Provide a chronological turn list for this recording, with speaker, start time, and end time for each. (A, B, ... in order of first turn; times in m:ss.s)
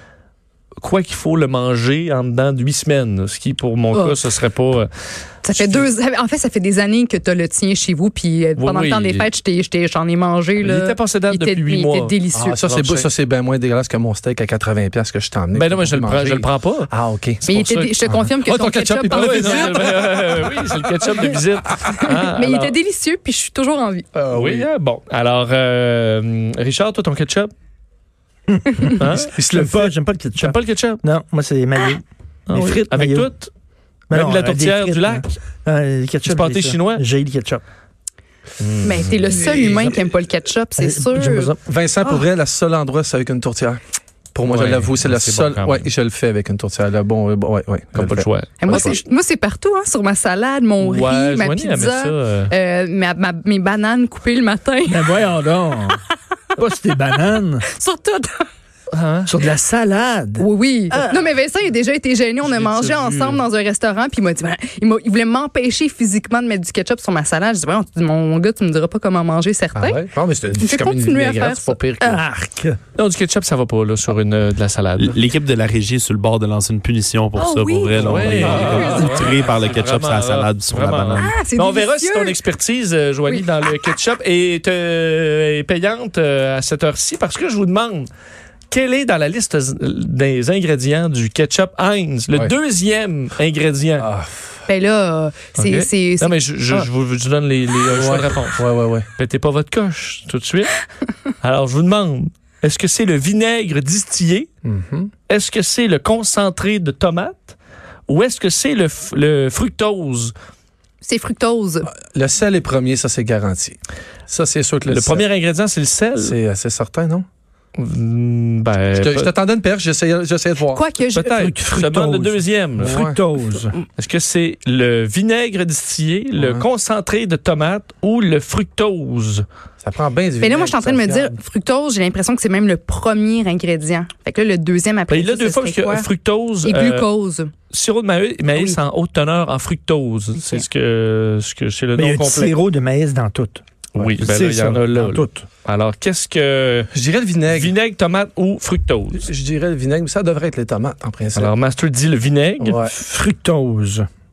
0:00.8-0:04.9 A
0:03.9-0:04.2 B
0:05.4-0:12.6 B
0:05.5-0:05.9 A
0:08.6-0:09.3 A
0:10.6-0:13.1 A
0:12.3-0:17.5 C
0:15.5-0:16.9 A
0:17.4-0:18.0 A
0:17.5-0:19.9 B
0:18.0-0:20.6 C
0:19.1-0:22.8 A
0:22.0-0:24.1 B
0:24.2-0:24.7 C
0:24.3-0:27.5 A
0:28.7-0:28.9 D
0:29.0-0:29.7 A
0:29.3-0:29.8 C
0:29.5-0:33.3 D
0:30.4-0:31.0 A
0:32.5-0:33.5 A
0:34.1-0:37.6 D
0:34.1-0:35.3 A
0:36.2-0:37.0 A
0:38.6-0:39.2 A
0:38.8-0:41.5 B
0:39.5-0:39.9 C
0:39.6-0:39.8 D
0:40.8-0:41.6 D
0:41.6-0:43.8 C
0:44.3-0:49.0 C
0:44.5-0:45.9 A
0:48.0-0:49.0 A
0:48.6-0:55.1 B
0:50.8-0:52.5 A
0:54.8-0:56.0 D
0:56.6-0:57.7 D
0:57.7-0:58.5 B
0:58.9-0:59.3 A
0:59.3-1:01.1 D
1:00.4-1:10.0 B
1:02.4-1:03.4 A
1:09.8-1:12.2 C
1:10.6-1:11.8 B
1:12.0-1:12.8 D
1:13.0-1:15.2 A
1:15.0-1:21.3 E
1:17.4-1:19.4 B
1:18.0-1:28.1 A
1:21.2-1:22.4 B
1:28.7-1:34.1 A
1:34.0-1:34.6 C
1:34.7-1:36.8 B
1:35.6-1:38.7 A
1:37.9-1:39.1 C
1:39.2-1:40.8 A
1:41.4-1:44.5 A
1:44.6-1:45.1 C
1:45.3-1:47.6 A
1:48.1-1:50.3 A
1:51.0-1:51.9 B
1:51.9-1:53.8 C
1:54.3-1:55.2 C
1:54.9-1:56.4 A
1:56.2-1:57.2 C
1:57.8-1:59.3 A
1:59.0-2:00.8 C
2:00.7-2:01.5 B
2:01.2-2:03.0 A
2:01.3-2:03.8 D
2:02.8-2:03.2 C
2:04.0-2:09.4 A
2:06.4-2:06.6 C
2:09.8-2:11.3 C
2:10.4-2:16.1 B
2:15.1-2:17.1 A
2:16.6-2:17.5 B
2:17.7-2:22.6 A
2:18.5-2:18.8 B
2:20.4-2:20.6 B
2:22.0-2:25.4 D
2:24.0-2:26.9 A
2:26.9-2:27.7 C
2:27.5-2:29.3 A
2:29.2-2:31.5 C
2:31.4-2:32.8 A
2:32.6-2:33.0 C
2:32.9-2:34.1 D